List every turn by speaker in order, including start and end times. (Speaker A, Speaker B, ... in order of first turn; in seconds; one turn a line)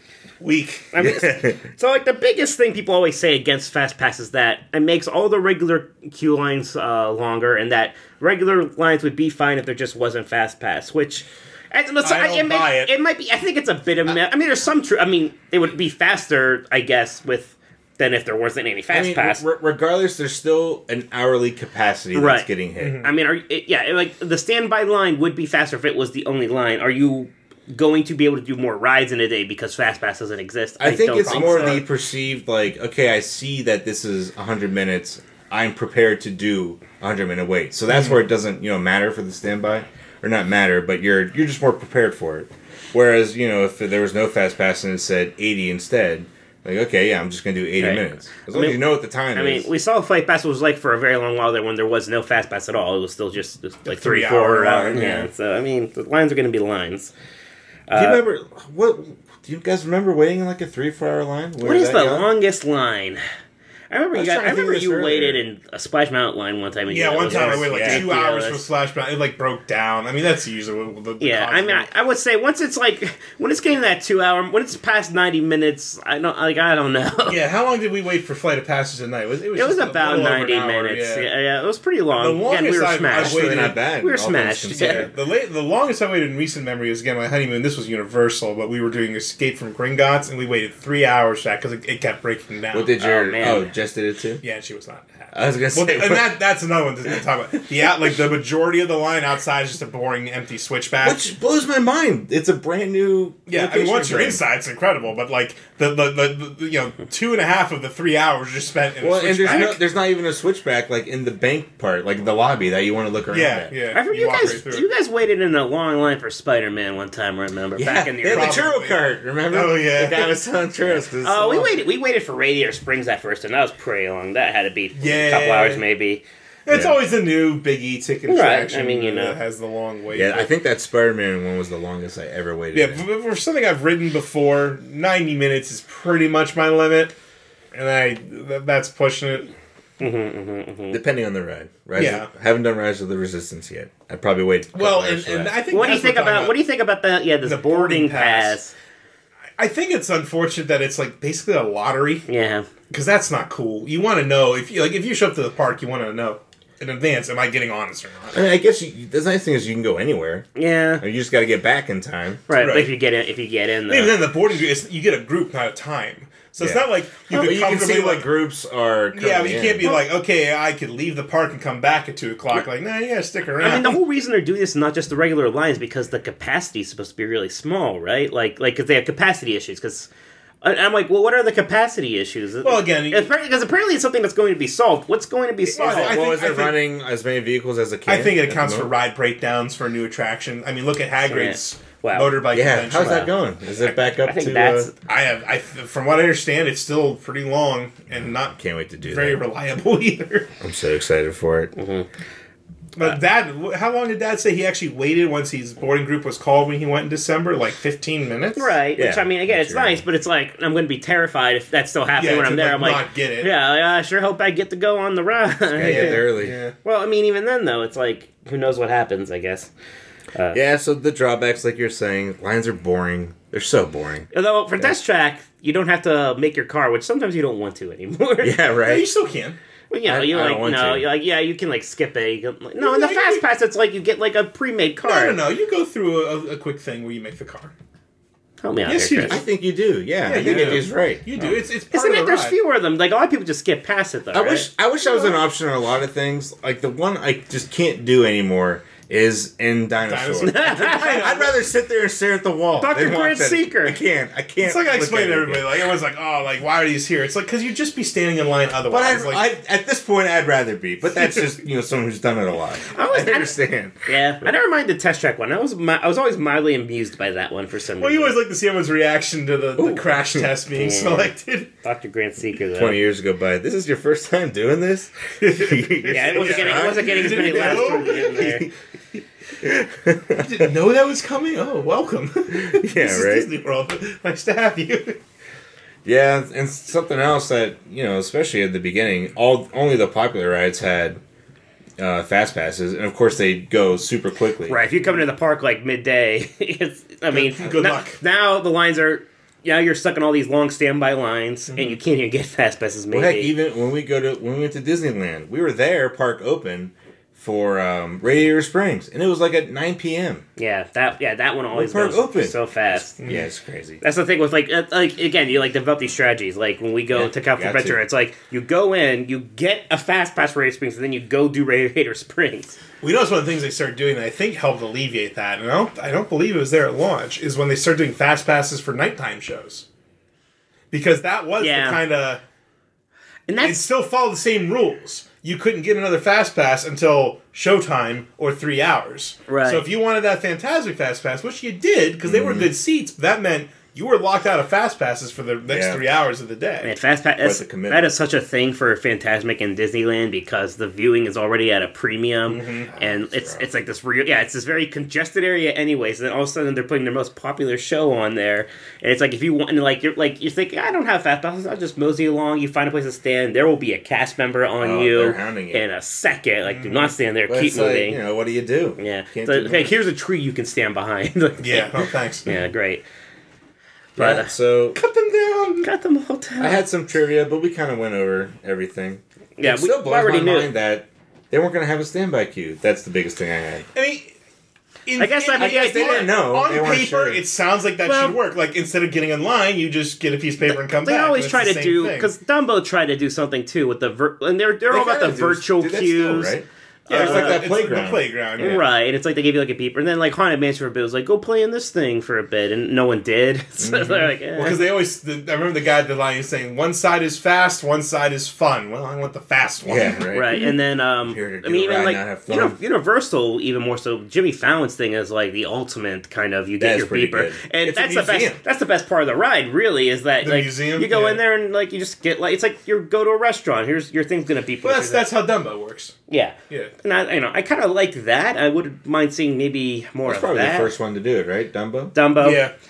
Speaker A: 0.4-1.0
Speaker B: 0.9-19.4
Speaker C: 1.0-1.6
Speaker A: 12.0-12.9
Speaker C: 18.9-23.0
Speaker B: 22.1-22.5
Speaker A: 22.8-23.1
Speaker B: 23.0-31.8
Speaker C: 30.8-49.7
Speaker A: 31.2-31.8
Speaker B: 47.8-48.8
Speaker B: 49.3-57.1
Speaker A: 53.9-55.3
Speaker B: 57.9-58.2
Speaker C: 57.9-62.3
Speaker B: 61.6-63.2
Speaker B: 63.9-68.7
Speaker C: 64.1-65.4
Speaker A: 66.9-71.9
Speaker C: 67.2-68.0
Speaker B: 71.2-77.4
Speaker A: 77.3-81.3
Speaker B: 79.5-85.1
Speaker A: 82.2-83.8
Speaker C: 83.1-85.1
Speaker A: 84.7-92.9
Speaker C: 92.7-94.4
Speaker B: 93.0-93.7
Speaker A: 94.4-101.3
Speaker C: 95.3-96.3
Speaker C: 101.0-104.4
Speaker A: 103.5-109.8
Speaker C: 109.0-113.7
Speaker A: 113.3-114.9
Speaker B: 113.9-118.7
Speaker C: 117.8-121.8
Speaker A: 118.2-120.3
Speaker B: 121.2-126.2
Speaker A: 125.0-125.8
Speaker A: 126.7-130.5
Speaker C: 126.7-127.0
Speaker B: 128.3-129.4
Speaker C: 130.1-133.0
Speaker A: 132.7-137.1
Speaker A: 137.7-139.5
Speaker B: 140.0-141.0
Speaker C: 140.9-145.6
Speaker A: 141.9-142.3
Speaker A: 144.7-146.6
Speaker B: 145.7-148.7
Speaker A: 147.4-148.6
Speaker A: 149.6-152.2
Speaker B: 152.3-152.7
Speaker A: 152.9-158.4
Speaker C: 158.3-160.5
Speaker B: 160.5-161.0
Speaker C: 161.0-162.4
Speaker B: 162.5-164.2
Speaker A: 162.6-162.9
Speaker A: 163.9-168.3
Speaker C: 166.6-169.9
Speaker A: 169.1-174.0
Speaker B: 173.6-180.1
Speaker B: 180.6-186.2
Speaker A: 182.6-183.3
Speaker A: 185.7-186.8
Speaker C: 185.8-188.9
Speaker A: 188.1-193.3
Speaker B: 191.2-193.3
Speaker C: 192.5-194.9
Speaker B: 194.2-194.9
Speaker A: 195.1-200.5
Speaker C: 198.5-199.4
Speaker C: 200.6-201.7
Speaker B: 201.8-202.1
Speaker A: 202.9-208.7
Speaker B: 208.6-216.3
Speaker C: 209.0-210.0
Speaker A: 212.2-213.5
Speaker C: 215.7-216.6
Speaker A: 215.8-216.7
Speaker B: 216.8-219.7
Speaker C: 220.5-224.3
Speaker B: 224.3-228.5
Speaker C: 228.4-229.1
Speaker A: 228.8-229.6
Speaker B: 229.9-235.4
Speaker C: 230.0-231.1
Speaker A: 232.8-233.4
Speaker A: 235.0-237.7
Speaker B: 238.6-239.4
Speaker A: 238.9-239.4
Speaker C: 239.3-241.2
Speaker A: 240.2-242.6
Speaker B: 241.4-244.7
Speaker C: 244.3-255.9
Speaker A: 245.0-245.3
Speaker A: 250.1-251.7
Speaker B: 250.4-251.3
Speaker B: 252.8-254.0
Speaker A: 254.6-259.4
Speaker C: 258.9-264.5
Speaker B: 262.9-263.5
Speaker B: 264.0-268.4
Speaker A: 268.0-271.7
Speaker C: 269.8-270.5
Speaker B: 270.7-271.3
Speaker B: 271.8-273.0
Speaker C: 272.8-278.0
Speaker A: 275.4-278.7
Speaker B: 276.1-278.7
Speaker C: 279.6-280.7
Speaker A: 280.4-285.2
Speaker C: 282.5-283.5
Speaker C: 286.0-291.2
Speaker C: 292.0-294.8
Speaker B: 294.6-303.5
Speaker A: 297.3-298.2
Speaker C: 303.1-310.4
Speaker B: 310.6-313.2
Speaker C: 311.7-314.0
Speaker B: 314.0-322.8
Speaker C: 317.1-318.0
Speaker A: 323.0-329.8
Speaker A: 330.9-332.4
Speaker B: 331.6-332.0
Speaker B: 333.5-333.8
Speaker A: 333.6-346.9
Speaker B: 339.5-339.8
Speaker C: 342.2-342.7
Speaker C: 345.7-346.0
Speaker B: 346.8-368.2
Speaker C: 347.4-348.1
Speaker A: 352.5-352.9
Speaker C: 352.9-353.6
Speaker C: 364.8-365.8
Speaker A: 366.6-367.1
Speaker C: 367.5-369.9
Speaker B: 369.0-373.0
Speaker A: 371.6-372.5
Speaker B: 374.2-374.5
Speaker C: 374.2-375.0
Speaker A: 374.9-375.9
Speaker B: 375.8-376.8
Speaker C: 376.6-383.9
Speaker B: 379.6-380.7
Speaker A: 383.9-384.3
Speaker A: 385.1-392.3
Speaker B: 385.2-386.3
Speaker C: 385.6-387.4
Speaker B: 388.0-388.4
Speaker B: 390.7-397.6
Speaker C: 394.9-398.8
Speaker A: 397.1-398.8
Speaker B: 398.6-404.9
Speaker C: 403.8-404.3
Speaker A: 404.6-410.2
Speaker C: 409.8-412.8
Speaker B: 410.3-425.3
Speaker C: 416.8-418.6
Speaker A: 420.4-421.4
Speaker A: 424.8-426.1
Speaker B: 426.3-430.9
Speaker C: 430.2-432.1
Speaker B: 432.1-432.6
Speaker A: 432.4-432.7